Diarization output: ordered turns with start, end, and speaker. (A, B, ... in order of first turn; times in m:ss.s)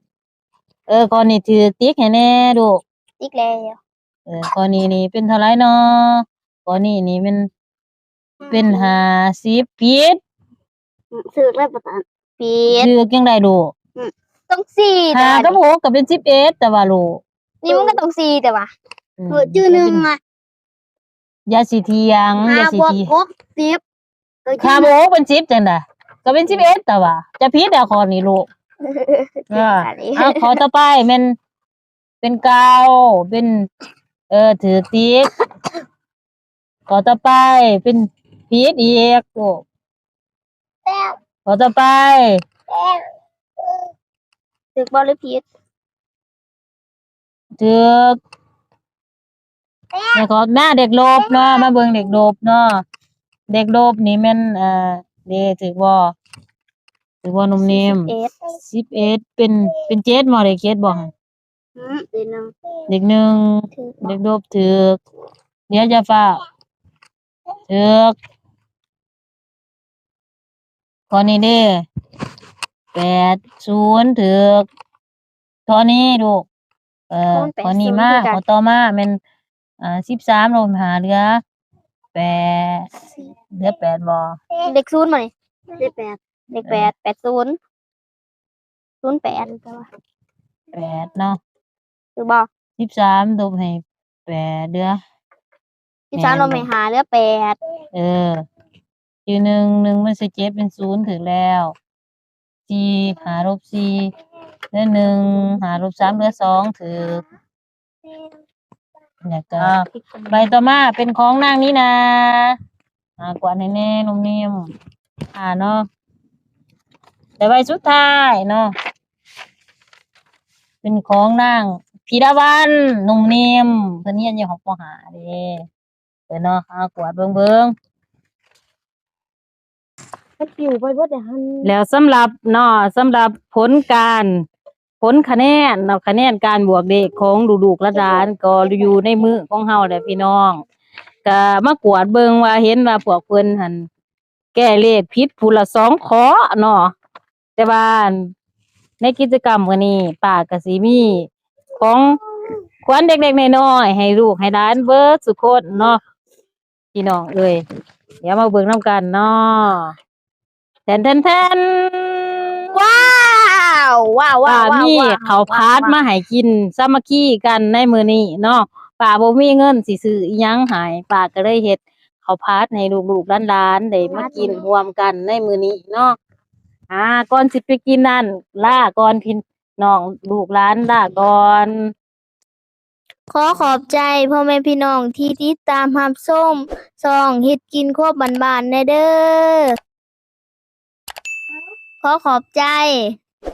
0:00.9-0:02.8 A
0:03.2-0:03.8 B
0:04.3-0:07.5 A
0:08.4-0:08.8 C
0:08.5-0:10.2 A
0:11.2-0:12.0 C
0:12.4-0:12.9 B
0:12.7-0:13.7 A
0:14.5-0:15.6 B
0:15.1-0:17.2 A
0:17.6-0:18.7 B
0:17.7-0:18.0 C
0:19.2-0:20.1 A
0:19.3-0:20.2 C
0:21.5-0:23.1 A
0:22.5-0:23.8 C
0:24.5-0:24.9 C
0:24.6-0:28.5 A
0:29.0-0:30.4 B
0:29.5-0:31.4 A
0:32.2-0:33.6 A
0:34.3-0:35.3 A
0:36.9-0:39.6 A
0:40.9-0:41.1 C
0:41.5-0:42.3 A
0:44.8-0:45.4 B
0:47.6-0:48.2 A
0:50.1-0:52.7 A
0:51.2-0:51.5 C
0:53.5-0:56.1 A
0:57.2-1:01.1 A
0:57.6-0:58.3 B
1:01.8-1:02.5 C
1:02.9-1:05.0 A
1:05.7-1:06.4 A
1:07.7-1:08.2 A
1:11.1-1:11.8 A
1:13.0-1:14.7 A
1:15.7-1:16.5 A
1:17.1-1:19.2 A
1:17.3-1:18.4 B
1:19.8-1:21.4 A
1:22.1-1:22.9 A
1:23.5-1:24.4 A
1:24.6-1:25.3 B
1:25.8-1:26.2 C
1:26.5-1:27.6 B
1:26.6-1:26.9 A
1:29.0-1:29.9 B
1:30.7-1:31.4 A
1:32.2-1:32.5 B
1:32.8-1:35.0 A
1:36.1-1:37.6 B
1:36.2-1:36.7 A
1:37.9-1:38.4 A
1:39.3-1:41.8 A
1:42.7-1:44.1 A
1:44.7-1:47.2 A
1:49.3-1:52.6 A
1:53.2-1:54.7 A
1:55.3-1:55.9 A
1:57.4-1:58.7 A
2:00.8-2:05.6 A
2:06.3-2:07.7 A
2:11.6-2:14.4 A
2:15.0-2:20.6 A
2:21.2-2:23.9 A
2:24.6-2:26.9 A
2:27.6-2:28.3 A
2:29.0-2:32.2 A
2:32.9-2:36.0 A
2:36.9-2:37.6 A
2:38.2-2:39.9 A
2:40.9-2:42.7 A
2:42.7-2:46.0 B
2:44.4-2:56.2 A
2:54.1-2:54.6 B
2:56.9-3:01.8 A
3:03.3-3:09.7 B
3:12.0-3:13.2 B